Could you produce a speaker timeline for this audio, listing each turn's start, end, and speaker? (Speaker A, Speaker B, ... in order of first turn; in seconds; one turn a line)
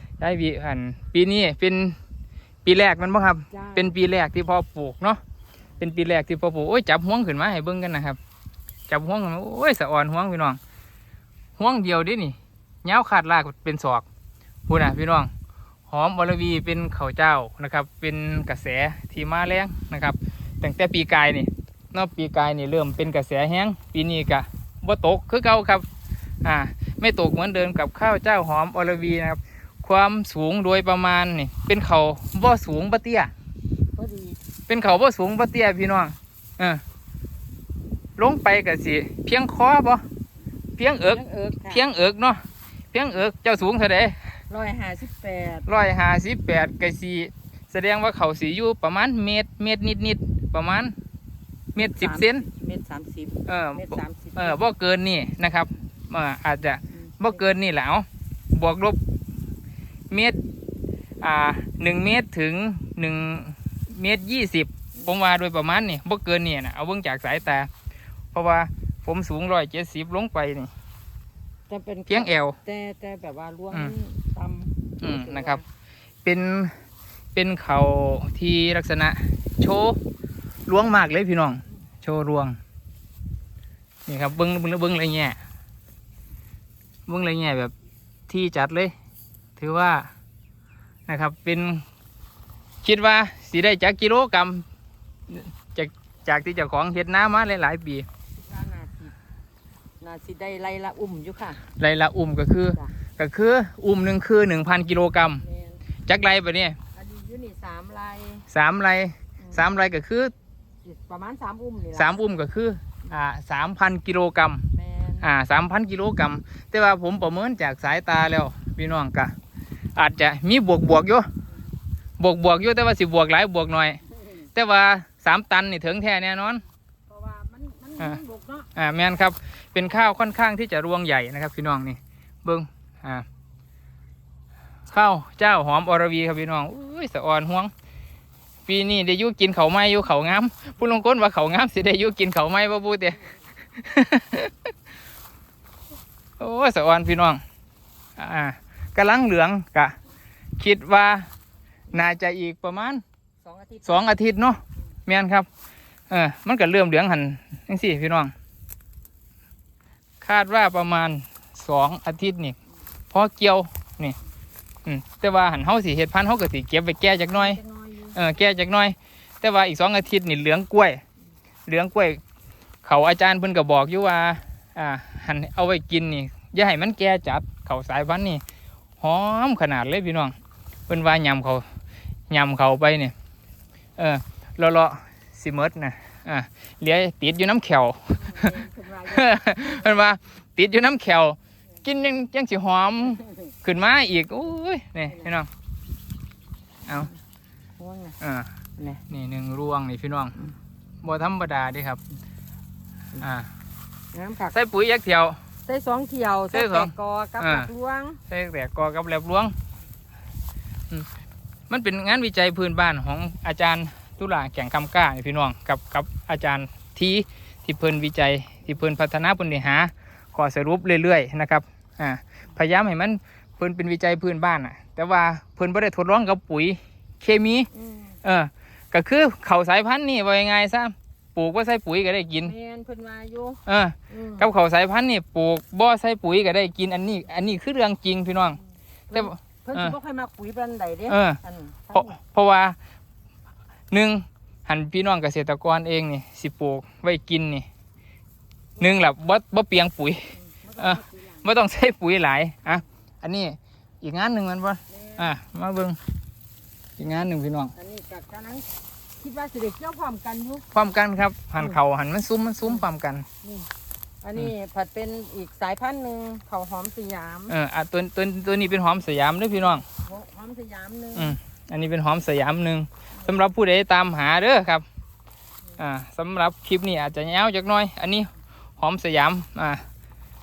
Speaker A: 0.2-2.0
Speaker A: 2.6-5.2
Speaker B: 3.5-3.9
Speaker A: 5.8-8.2
Speaker A: 8.9-10.6
Speaker A: 11.6-14.0
Speaker A: 14.7-15.3
Speaker A: 15.9-25.8
Speaker A: 26.4-33.3
Speaker B: 34.0-34.4
Speaker A: 34.7-36.8
Speaker A: 38.2-40.0
Speaker A: 40.8-44.2
Speaker B: 41.0-41.8
Speaker B: 44.5-45.7
Speaker A: 45.7-50.9
Speaker A: 51.7-52.4
Speaker B: 51.8-54.6
Speaker A: 53.5-59.0
Speaker A: 60.1-60.4
Speaker A: 61.2-67.7
Speaker A: 68.3-70.7
Speaker B: 71.7-75.6
Speaker A: 72.1-72.6
Speaker A: 75.0-75.6
Speaker A: 76.2-76.8
Speaker A: 77.3-80.0
Speaker A: 80.7-82.6
Speaker A: 84.1-85.4
Speaker A: 87.1-87.7
Speaker A: 88.3-88.9
Speaker A: 89.6-90.1
Speaker A: 91.1-91.8
Speaker A: 92.8-94.6
Speaker A: 95.3-98.1
Speaker B: 98.4-99.1
Speaker B: 100.0-101.6
Speaker A: 101.8-105.4
Speaker B: 105.4-105.8
Speaker A: 106.0-106.8
Speaker B: 106.9-108.5
Speaker A: 108.5-110.3
Speaker B: 110.8-112.2
Speaker A: 111.9-114.6
Speaker B: 114.7-115.3
Speaker A: 115.2-119.3
Speaker A: 120.0-121.3
Speaker A: 122.2-124.0
Speaker A: 124.5-126.6
Speaker B: 127.1-128.7
Speaker A: 128.8-133.2
Speaker A: 134.9-137.7
Speaker A: 138.7-143.2
Speaker A: 143.7-144.7
Speaker A: 146.4-147.4
Speaker A: 148.2-149.9
Speaker A: 150.6-151.3
Speaker A: 151.9-153.0
Speaker B: 153.4-154.1
Speaker A: 153.8-155.5
Speaker A: 156.1-158.3
Speaker A: 160.2-162.6
Speaker A: 163.1-164.2
Speaker A: 164.8-167.6
Speaker B: 167.3-168.2
Speaker A: 168.1-171.0
Speaker A: 171.7-172.2
Speaker A: 172.8-178.4
Speaker A: 179.0-180.3
Speaker A: 180.9-181.6
Speaker A: 182.3-183.1
Speaker A: 184.0-188.5
Speaker B: 188.2-189.9
Speaker A: 189.1-195.5
Speaker B: 197.8-198.2
Speaker A: 198.2-198.5
Speaker A: 199.1-200.3
Speaker A: 201.0-202.0
Speaker A: 203.2-203.5
Speaker B: 204.1-204.6
Speaker A: 204.5-205.4
Speaker B: 205.7-208.2
Speaker A: 206.5-207.7
Speaker A: 208.3-209.5
Speaker A: 211.7-227.7
Speaker B: 227.7-228.2
Speaker A: 228.2-232.5
Speaker B: 232.4-233.6
Speaker A: 233.7-238.6
Speaker B: 234.1-234.5
Speaker B: 239.1-242.2
Speaker A: 239.1-239.9
Speaker A: 241.1-241.4
Speaker A: 241.9-242.8
Speaker A: 243.9-247.7
Speaker A: 248.8-256.0
Speaker B: 250.3-251.5
Speaker B: 254.9-255.3
Speaker A: 257.0-257.7
Speaker B: 257.7-258.7
Speaker B: 259.2-260.6
Speaker A: 260.7-263.2
Speaker B: 263.4-263.7
Speaker B: 264.2-267.5
Speaker A: 267.5-269.8
Speaker B: 269.9-271.4
Speaker A: 271.1-274.8
Speaker A: 275.8-279.8